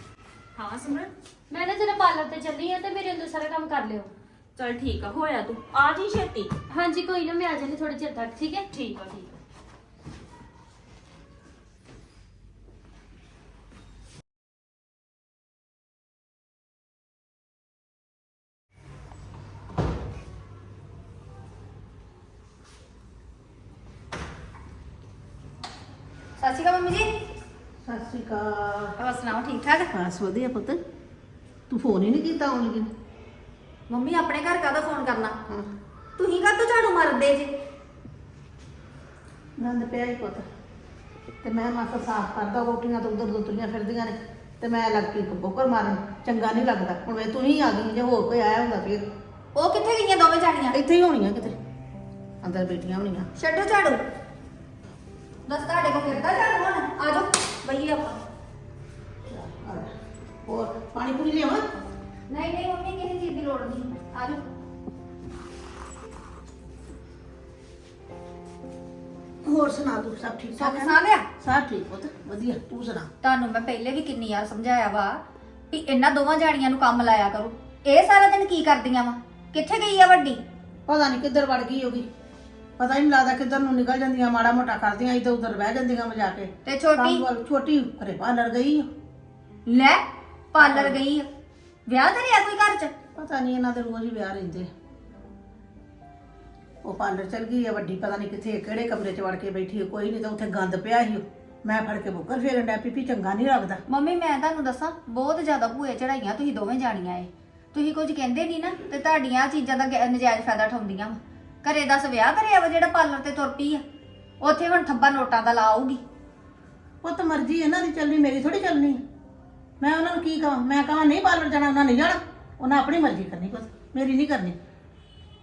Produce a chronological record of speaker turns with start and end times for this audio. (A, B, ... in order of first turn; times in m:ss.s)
0:00.5-0:01.1 A
0:01.5-0:04.1 B
0:04.6-0:06.5 A
0:06.7-0:08.6 B
0:08.7-0:09.3 A
0:26.4-0:27.1 C
0:27.8-0:29.0 D
0:29.0-0:29.9 C
0:29.9-0:30.8 D
0:31.7-0:32.9 D
0:33.9-0:35.4 C
0:36.2-0:37.6 C
0:39.6-0:40.4 D
0:41.4-0:49.0 D
0:49.5-0:50.8 C
0:50.7-0:51.6 D
0:52.4-0:53.3 D
0:53.4-0:54.0 C
0:55.5-0:58.2 C
0:59.3-0:59.9 D
1:00.4-1:01.7 D
1:02.3-1:04.4 C
1:09.4-1:13.1 D
1:10.6-1:11.3 C
1:13.2-1:20.4 C
1:20.9-1:22.1 D
1:22.8-1:28.9 D
1:26.6-1:27.2 C
1:29.6-1:30.0 C
1:30.5-1:31.2 C
1:30.6-1:31.0 D
1:31.9-1:32.9 C
1:33.1-1:34.7 D
1:36.8-1:43.8 D
1:43.9-1:53.8 C
1:54.4-1:56.0 C
1:57.0-1:59.0 D
1:59.8-2:04.6 D